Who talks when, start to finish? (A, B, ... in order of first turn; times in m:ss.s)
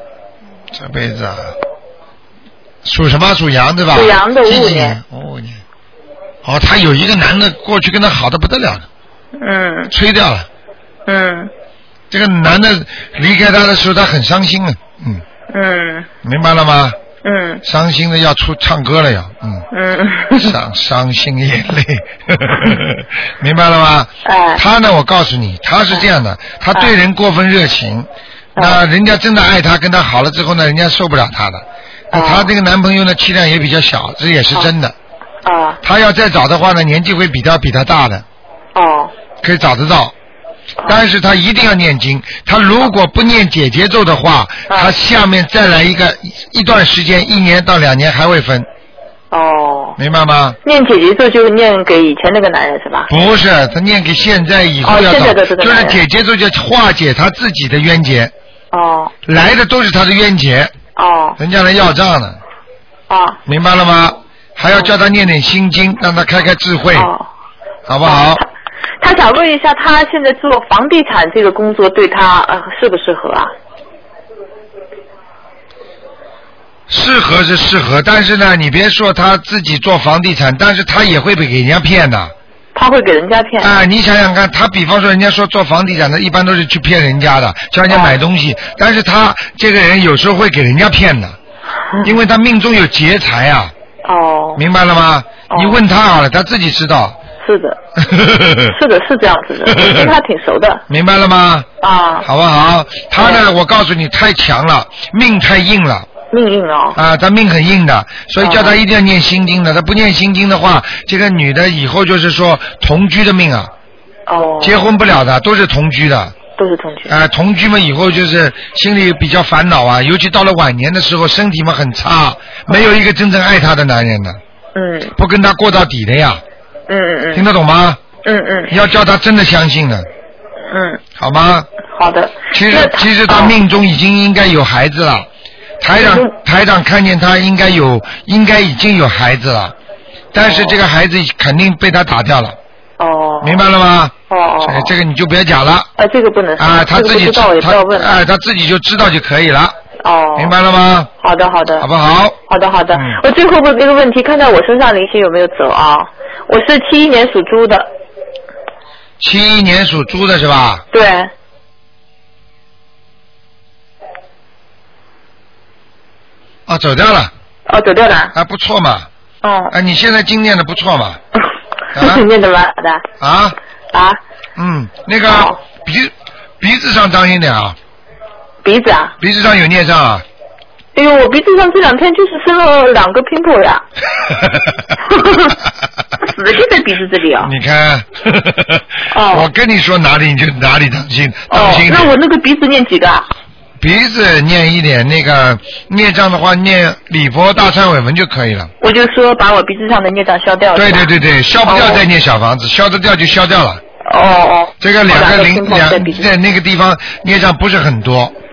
0:00.7-0:01.5 A
0:02.8-0:05.6 A
0:03.9-0:05.0 B
0:06.4-0:08.8 A
0:09.4-0:09.9 B
0:09.9-0:10.5 A
0:11.0-0:11.5 B
0:12.1-0:15.2 A
0:15.5-0:16.1 B
0:16.2-0:17.0 A
0:17.2-0:17.6 B
0:17.6-0:19.6 A
0:19.7-0:20.5 B
0:20.4-0:34.9 A
0:24.2-0:24.6 B
0:28.6-0:28.8 B
0:32.1-0:32.5 B
0:35.4-0:35.8 B
0:35.8-0:38.2 A
0:38.7-0:39.1 B
0:39.4-0:40.1 A
0:40.8-0:48.7 A
0:44.7-0:44.9 B
0:49.3-0:50.0 B
0:50.0-0:50.6 A
0:50.6-0:53.1 B
0:53.1-0:58.3 A
0:54.8-0:56.0 B
0:58.7-0:59.1 B
0:59.2-1:00.7 A
1:01.0-1:01.4 B
1:01.4-1:02.4 A
1:03.1-1:03.4 B
1:03.4-1:07.1 A
1:06.9-1:07.3 B
1:07.9-1:08.4 A
1:08.0-1:08.5 B
1:09.0-1:13.5 B
1:16.9-1:22.3 A
1:22.7-1:23.7 B
1:23.6-1:31.4 A
1:27.9-1:28.2 B
1:32.0-1:33.7 A
1:34.0-1:34.6 B
1:34.6-1:37.2 A
1:35.5-1:35.8 B
1:37.4-1:37.8 B
1:38.0-1:38.7 A
1:38.7-1:40.8 B
1:39.7-1:40.1 A
1:40.9-1:41.7 A
1:41.8-1:42.3 B
1:42.2-1:46.1 A
1:43.2-1:43.4 B
1:46.3-1:47.0 B
1:46.9-1:53.7 A
1:48.4-1:48.8 B
1:54.3-1:54.8 B
1:54.6-1:56.4 A
1:56.5-1:57.1 B
1:57.1-2:04.4 A
2:04.7-2:05.1 B
2:05.2-2:06.4 A
2:06.9-2:07.5 B
2:07.3-2:08.0 A
2:08.2-2:08.8 B
2:08.7-2:10.1 A
2:10.7-2:11.0 B
2:11.2-2:11.7 A
2:11.9-2:13.5 B
2:12.5-2:15.3 A
2:15.8-2:19.7 A
2:16.0-2:16.3 B
2:20.3-2:22.6 A
2:20.4-2:20.8 B
2:23.0-2:23.6 B
2:23.4-2:25.9 A
2:24.3-2:24.9 B
2:26.0-2:28.2 B
2:26.6-2:29.8 A
2:30.0-2:30.5 B
2:30.4-2:31.1 A
2:31.2-2:31.9 B
2:31.8-2:32.4 A
2:32.5-2:37.9 B
2:32.9-2:33.2 A
2:39.2-2:40.8 A
2:40.9-2:41.3 B
2:46.7-2:47.3 A
2:47.7-2:48.3 B
2:48.3-2:49.1 A
2:49.4-2:49.7 B
2:49.7-2:51.2 A
2:51.9-2:53.0 B
2:51.9-2:52.2 A
2:53.2-2:53.6 A
2:53.9-2:54.2 B
2:54.6-2:57.8 A
2:55.2-2:55.6 B
2:58.6-2:59.1 B
2:59.2-3:00.2 A
3:00.9-3:03.8 B
3:04.4-3:04.7 A
3:05.0-3:05.6 B
3:06.2-3:07.5 B
3:07.4-3:12.1 A
3:09.1-3:09.5 B
3:11.5-3:13.3 B
3:13.8-3:18.7 A
3:18.8-3:21.1 B
3:20.7-3:23.8 A
3:21.6-3:22.0 B
3:24.0-3:26.3 B
3:24.8-3:28.3 A